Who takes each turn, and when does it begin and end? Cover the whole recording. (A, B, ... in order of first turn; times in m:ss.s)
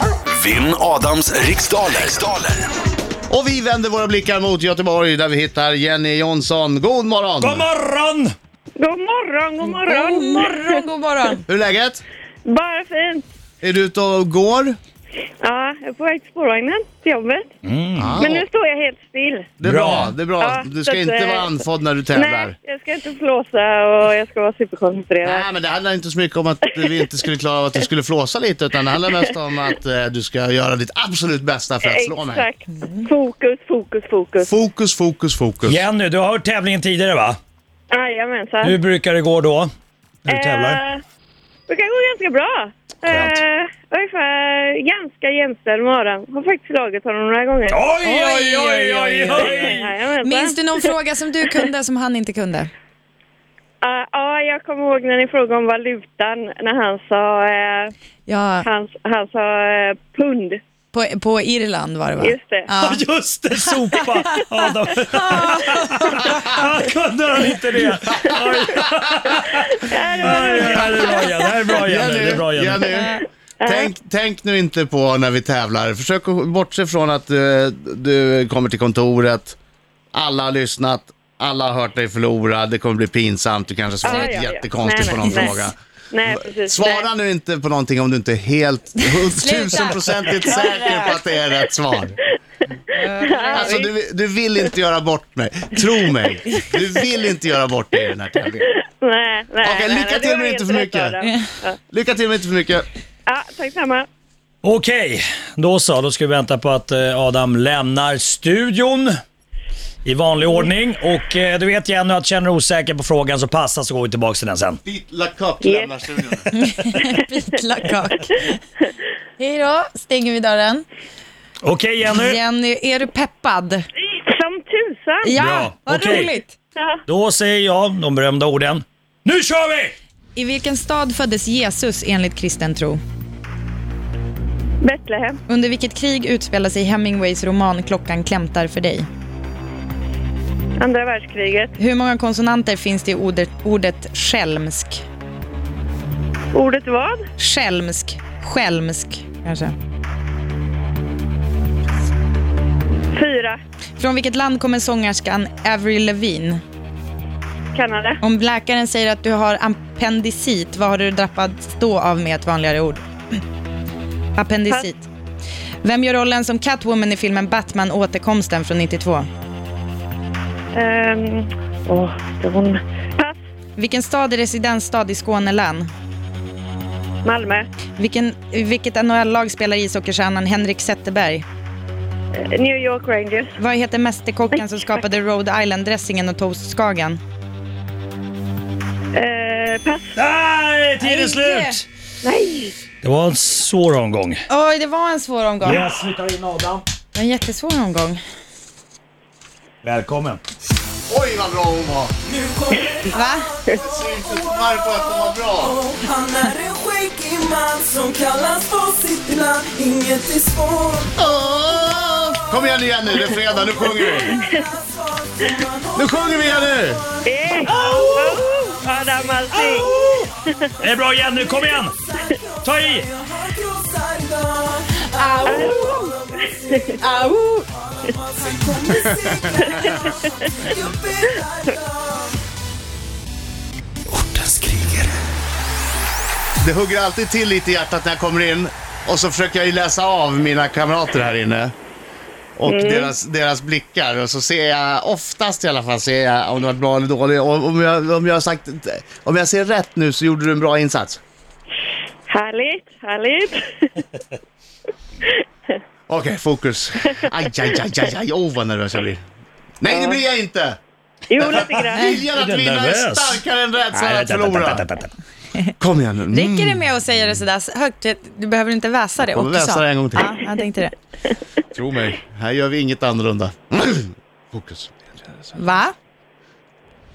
0:00.3-0:02.6 A
0:03.3-0:07.7 B
0:07.4-0:08.3 C
0:08.8-0:10.8 D
0:09.7-0:11.4 E
0:11.5-0:12.0 B
0:12.5-0:13.2 D
0:13.6-0:14.8 B
0:15.4-0:17.5 D
0:17.6-0:18.3 C
0:18.0-0:18.5 B
0:18.2-0:19.5 D
0:19.6-0:22.6 B
0:19.6-0:20.1 C
0:20.4-0:21.6 D
0:22.1-0:25.5 D
0:25.2-0:32.5 B
0:31.8-0:34.5 D
0:32.8-0:33.1 E
0:34.4-0:35.8 B
0:35.7-0:37.4 C
0:37.9-0:38.8 D
0:38.6-0:39.7 C
0:40.2-0:40.8 C
0:40.3-0:41.0 D
0:41.7-0:47.8 D
0:43.0-0:43.4 C
0:47.7-0:49.9 C
0:48.0-0:52.7 E
0:49.3-0:50.9 D
0:53.8-0:57.9 D
0:58.3-0:58.7 E
0:58.6-1:00.6 D
1:00.9-1:03.0 E
1:02.2-1:02.7 D
1:02.8-1:12.9 C
1:03.6-1:04.3 E
1:05.2-1:06.5 E
1:09.5-1:11.6 D
1:10.6-1:11.1 B
1:11.7-1:19.6 B
1:12.9-1:13.2 E
1:13.6-1:13.9 D
1:20.1-1:25.8 B
1:24.0-1:25.6 D
1:25.2-1:25.7 E
1:26.1-1:27.1 D
1:26.3-1:32.2 B
1:29.0-1:31.2 E
1:32.9-1:33.9 E
1:33.3-1:33.9 D
1:33.5-1:38.7 B
1:38.7-1:41.8 D
1:39.6-1:41.2 B
1:41.2-1:41.5 E
1:41.9-1:42.9 B
1:43.3-1:44.1 D
1:44.6-1:49.1 C
1:50.0-1:54.8 C
1:54.8-1:56.7 B
1:55.6-1:56.0 D
1:56.5-1:58.6 E
1:59.4-2:00.8 E
2:01.6-2:02.4 C
2:02.1-2:03.8 E
2:04.0-2:05.3 D
2:05.2-2:06.5 E
2:05.4-2:06.3 C
2:07.1-2:10.0 C
2:10.4-2:13.0 E
2:14.8-2:15.4 D
2:15.5-2:19.1 E
2:20.8-2:21.7 D
2:21.8-2:25.0 E
2:26.5-2:27.3 D
2:27.4-2:29.7 E
2:33.1-2:33.6 D
2:34.0-2:36.6 E
2:37.7-2:38.2 D
2:38.2-2:43.1 E
2:44.4-2:45.1 E
2:45.8-2:49.3 E
2:50.8-2:53.4 D
2:53.8-2:55.9 E
2:57.2-2:57.7 D
2:58.0-3:01.4 E
3:02.5-3:03.5 D
3:03.6-3:07.2 E
3:09.2-3:10.1 D
3:10.2-3:11.8 C
3:11.0-3:11.8 E
3:12.2-3:12.8 D
3:13.0-3:14.4 C
3:14.5-3:15.8 E
3:15.6-3:16.8 C
3:17.2-3:18.2 E
3:19.8-3:20.4 C
3:21.1-3:22.1 B
3:22.3-3:31.1 F
3:23.1-3:23.6 E
3:23.7-3:25.8 B
3:31.2-3:34.4 B
3:33.2-3:39.2 F
3:34.0-3:34.6 D
3:36.0-3:37.0 B
3:37.2-3:39.9 D
3:39.5-3:40.3 C
3:40.8-3:41.9 C
3:41.4-3:47.0 F
3:42.6-3:43.1 C
3:45.2-3:46.2 E
3:45.5-3:45.8 D
3:47.0-3:47.7 E
3:47.8-3:52.4 F
3:49.7-3:50.2 D
3:54.1-3:55.2 A
3:56.6-4:01.7 B
4:02.6-4:11.2 B
4:02.7-4:03.1 D
4:12.3-4:13.9 D
4:16.1-4:19.2 B
4:19.8-4:20.8 B
4:19.9-4:20.2 D
4:21.3-4:22.1 D
4:21.4-4:24.8 B
4:22.3-4:23.4 C
4:23.9-4:25.1 C
4:25.8-4:26.9 B
4:26.3-4:30.9 E
4:29.2-4:30.3 B
4:31.7-4:35.4 B
4:35.6-4:35.9 E